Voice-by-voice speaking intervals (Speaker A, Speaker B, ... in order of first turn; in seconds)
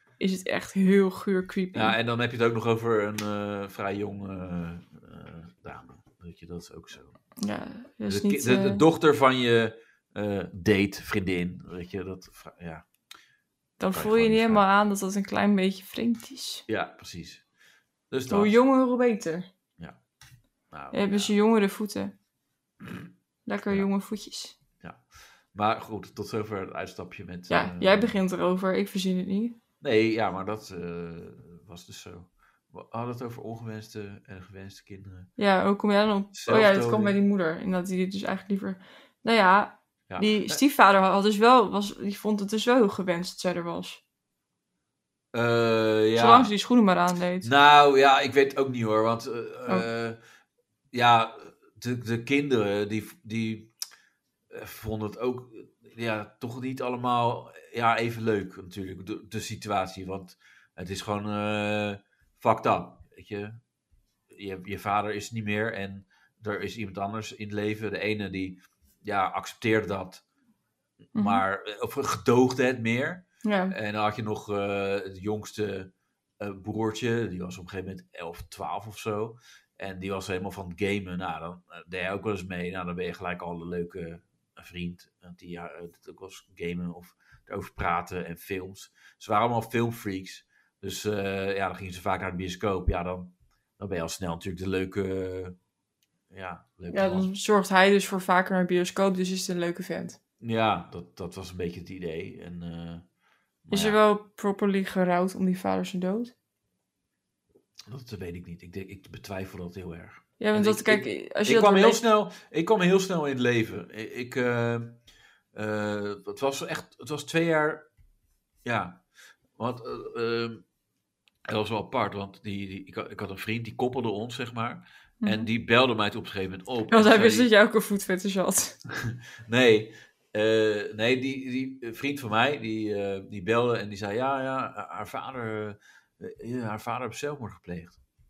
Speaker A: 0.2-2.0, 7.4-8.8, 13.8-16.6, 18.3-19.5, 20.9-22.1, 23.5-24.6, 27.5-29.6, 35.4-44.0, 46.1-47.5, 71.2-71.4, 73.4-73.8, 96.9-100.2, 103.7-106.3, 110.4-112.0, 125.2-125.5, 126.9-128.8
Speaker B: 1.7-7.2, 8.1-12.8, 13.9-14.6, 16.7-17.4, 18.1-18.6, 20.7-21.3, 25.5-28.2, 29.8-35.3, 36.3-37.2, 40.1-40.6, 45.3-46.5, 47.4-50.2, 50.9-53.7, 54.5-63.6, 64.3-70.2, 71.1-95.6, 96.3-97.3, 100.4-103.0, 103.7-104.0, 107.9-115.0, 115.5-117.8, 118.7-119.0, 119.6-120.6, 121.5-127.5, 128.9-138.0